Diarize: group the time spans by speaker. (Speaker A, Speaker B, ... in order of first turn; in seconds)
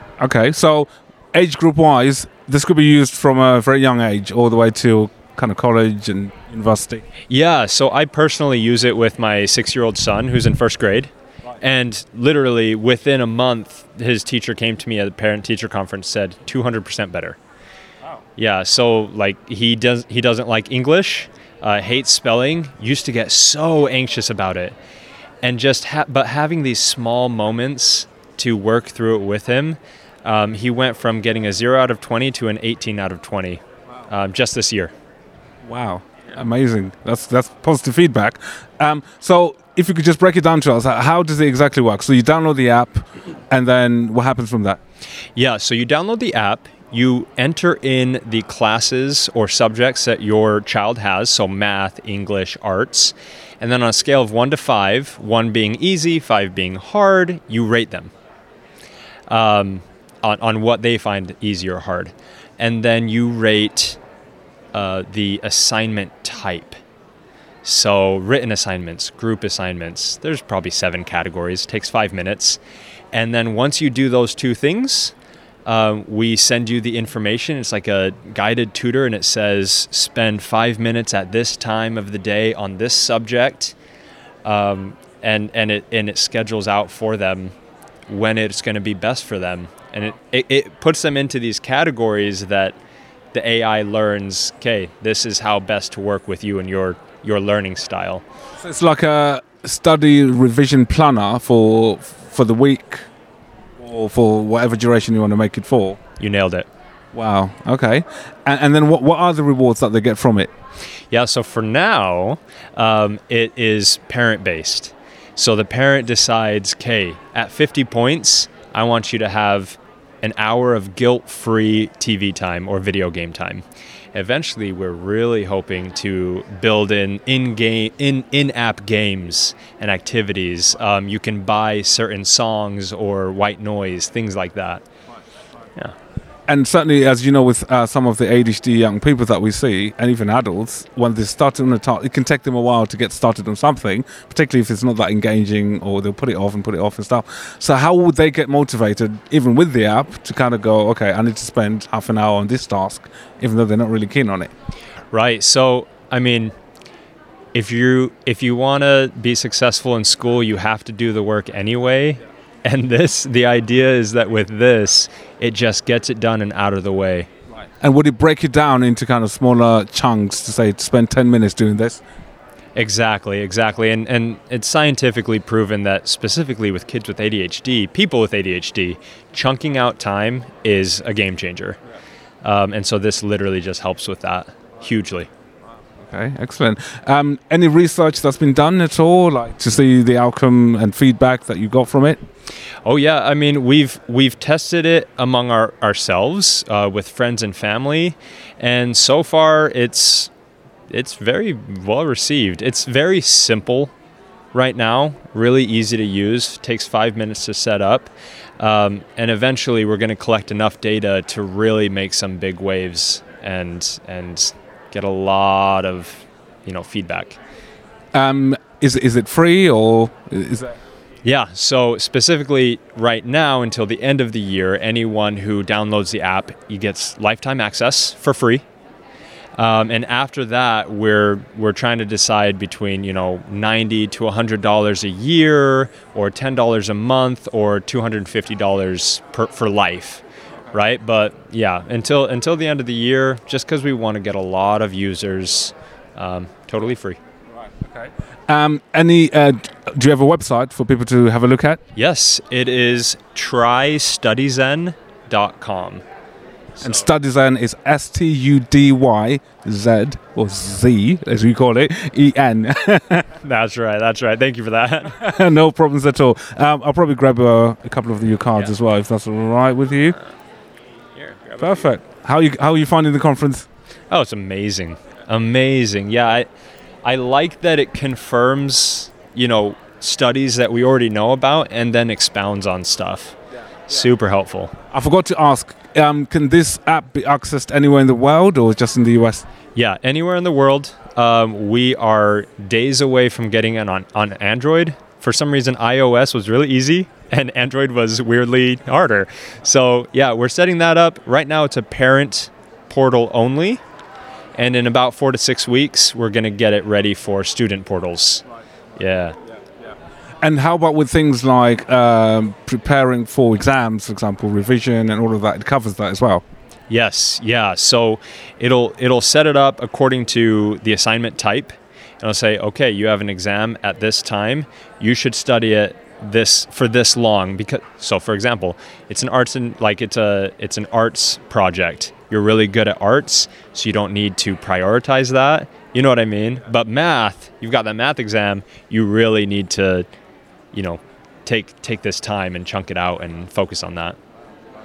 Speaker A: 0.2-7.0, 35.6-44.8, 98.6-103.1, 103.8-106.0, 107.1-110.5, 136.5-154.5, 167.8-172.0, 186.0-192.2, 218.1-220.8, 247.8-251.8, 256.8-263.2, 265.2-270.2, 271.6-273.6, 284.9-289.4, 310.4-316.4
Speaker B: 7.3-17.4, 18.4-24.8, 25.4-34.9, 45.4-58.1, 59.3-64.0, 64.7-66.8, 67.6-72.6, 73.1-75.1, 75.7-83.7, 84.4-87.5, 88.1-92.8, 93.3-98.2, 106.2-106.7, 111.1-134.8, 155.1-156.5, 157.5-167.3, 172.7-181.8, 182.4-185.3, 192.8-200.3, 200.9-203.9, 204.5-217.4, 221.2-228.6, 229.6-247.2, 251.9-256.0, 256.8-257.0, 263.4-265.2, 271.1-271.7, 274.1-276.5, 277.0-283.4, 283.9-284.7, 289.7-303.8, 304.6-308.4, 309.0-309.4, 316.9-340.1, 340.7-344.2